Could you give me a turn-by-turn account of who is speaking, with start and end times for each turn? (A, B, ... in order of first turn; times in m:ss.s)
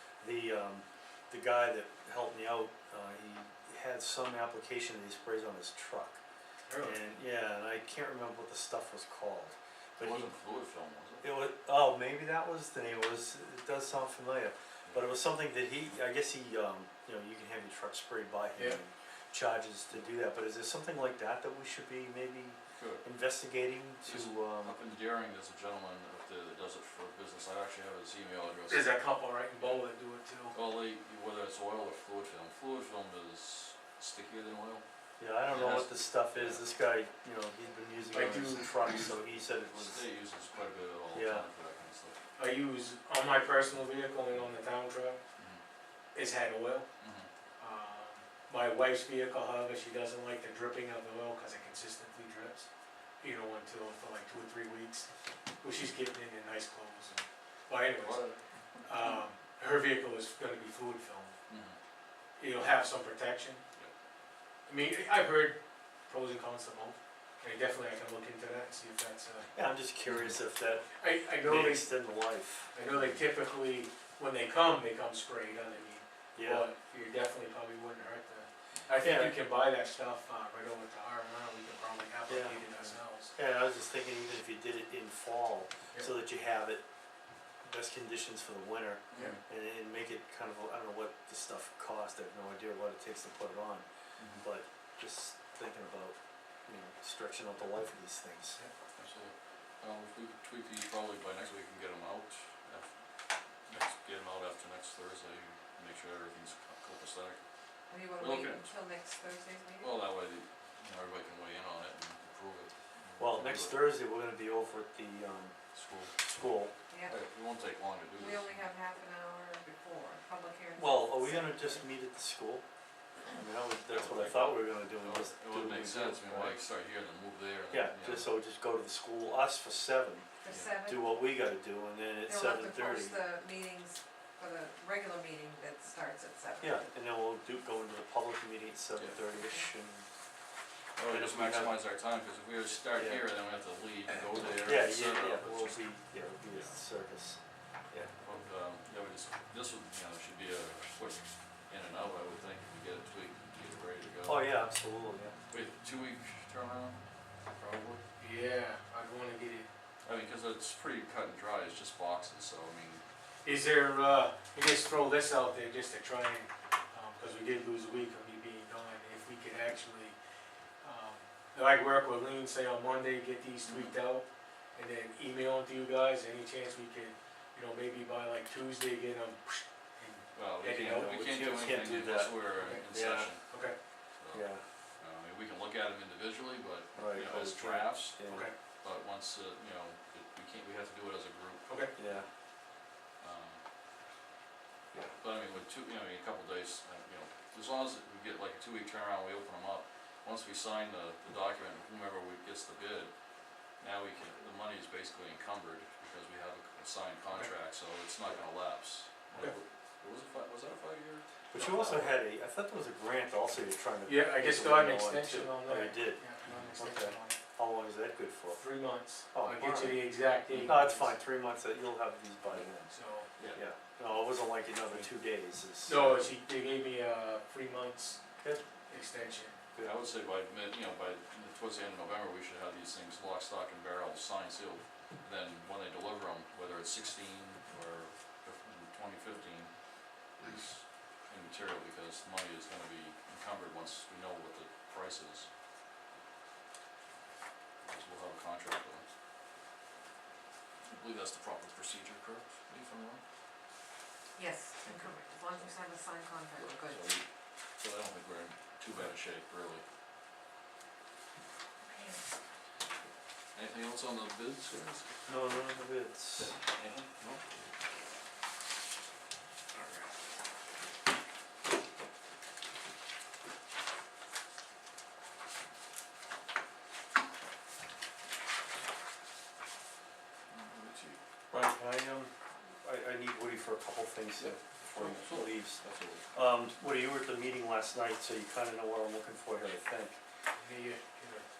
0:00.2-0:06.2 A
0:06.7-0:07.0 B
0:06.8-0:10.3 A
0:10.0-0:11.3 C
0:11.2-0:24.8 A
0:22.8-0:23.0 C
0:24.1-0:28.9 C
0:28.7-0:30.6 B
0:30.5-0:34.8 C
0:35.2-0:40.1 A
0:35.5-0:36.6 C
0:38.1-0:39.1 B
0:39.7-0:42.2 C
0:41.1-0:41.5 A
0:42.4-0:45.2 B
0:46.1-0:46.9 B
0:47.0-0:47.3 C
0:47.6-0:52.7 B
0:53.2-0:55.1 B
0:55.6-0:58.2 B
0:58.0-0:58.4 C
0:58.8-1:01.4 B
1:01.5-1:01.8 C
1:02.4-1:03.6 B
1:04.7-1:09.5 B
1:09.5-1:12.7 A
1:11.0-1:11.9 B
1:12.7-1:23.3 B
1:16.4-1:16.7 A
1:19.0-1:19.4 A
1:22.3-1:26.8 A
1:27.6-1:33.9 A
1:29.1-1:29.4 C
1:34.2-1:34.4 C
1:34.4-1:38.6 A
1:39.0-1:42.9 C
1:43.7-1:47.4 C
1:47.9-1:49.9 D
1:48.2-1:48.7 C
1:49.8-1:53.8 C
1:53.2-1:55.6 A
1:55.7-1:56.1 C
1:56.2-1:56.7 A
1:56.9-1:57.2 D
1:57.1-1:58.6 C
1:58.2-2:01.8 D
2:00.8-2:02.6 A
2:03.3-2:06.6 A
2:03.9-2:08.3 C
2:07.7-2:10.3 A
2:10.4-2:11.2 D
2:10.5-2:10.7 C
2:10.8-2:13.2 A
2:12.2-2:16.9 D
2:16.6-2:20.1 A
2:19.4-2:19.7 D
2:21.0-2:25.9 C
2:21.1-2:21.8 A
2:22.9-2:23.2 A
2:24.5-2:27.4 A
2:26.5-2:26.8 C
2:28.2-2:34.4 C
2:34.2-2:35.4 A
2:35.5-2:38.0 C
2:38.2-2:39.7 B
2:40.0-2:43.0 C
2:43.4-2:50.2 B
2:50.8-3:01.2 B
2:53.7-2:53.9 C
3:00.4-3:03.4 C
3:00.9-3:03.3 A
3:02.6-3:02.8 B
3:03.5-3:03.8 B
3:04.2-3:04.4 C
3:04.3-3:04.6 A
3:05.0-3:12.2 C
3:07.0-3:08.5 A
3:08.3-3:08.5 B
3:11.7-3:11.9 B
3:12.0-3:12.3 A
3:13.2-3:13.6 C
3:15.2-3:23.1 C
3:23.8-3:32.1 C
3:31.5-3:36.2 A
3:31.6-3:32.1 B
3:34.1-3:37.4 B
3:36.4-3:36.7 C
3:36.8-3:38.6 A
3:38.5-3:41.1 B
3:39.3-3:40.1 A
3:40.5-3:40.8 C
3:40.6-3:42.7 A
3:42.5-3:42.9 C
3:42.9-3:43.3 B
3:43.5-3:46.3 A
3:45.9-3:48.2 B
3:48.4-3:48.6 A
3:48.9-3:49.6 B
3:49.8-3:59.8 C
4:00.4-4:05.5 C
4:07.8-4:09.0 C
4:10.8-4:13.2 C
4:14.4-4:17.2 D
4:14.8-4:15.2 C
4:16.6-4:17.2 C
4:17.8-4:19.8 C
4:21.8-4:22.2 D
4:23.6-4:25.1 C
4:25.3-4:26.6 A
4:26.7-4:27.5 C
4:29.8-4:30.0 C
4:40.5-4:41.2 C
4:41.5-4:45.8 A
4:44.4-4:46.3 C
4:46.3-4:50.2 A
4:50.6-4:51.4 B